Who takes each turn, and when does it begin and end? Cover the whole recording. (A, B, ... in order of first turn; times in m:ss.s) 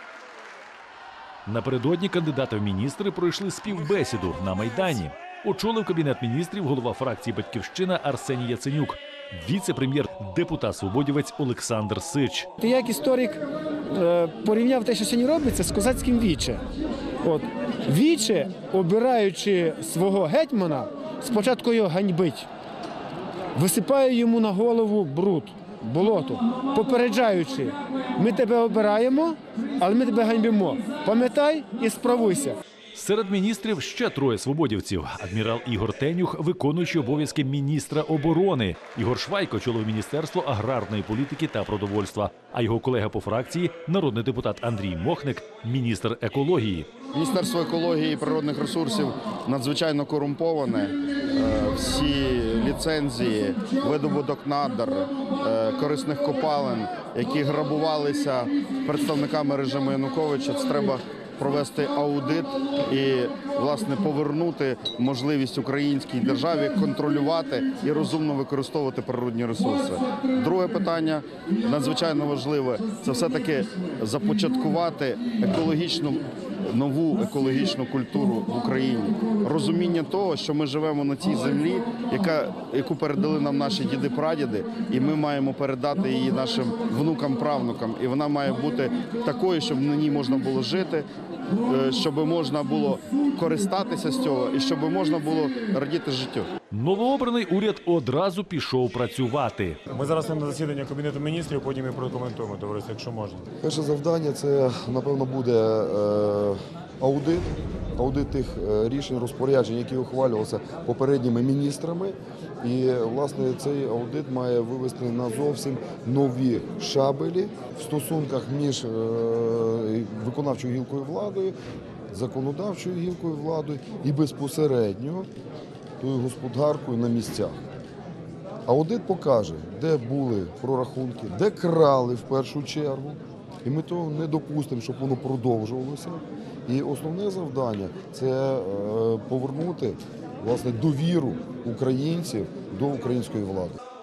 0:01.4-0:12.5 A
0:12.6-0:16.6 B
0:17.2-0:22.5 B
0:23.5-0:32.6 B
0:32.9-0:46.9 A
0:47.1-1:31.1 C
1:31.6-1:36.5 C
1:36.7-1:39.8 A
1:39.9-1:43.5 D
1:43.6-2:01.5 E
2:02.1-2:05.3 E
2:06.0-2:07.5 E
2:08.6-2:23.8 E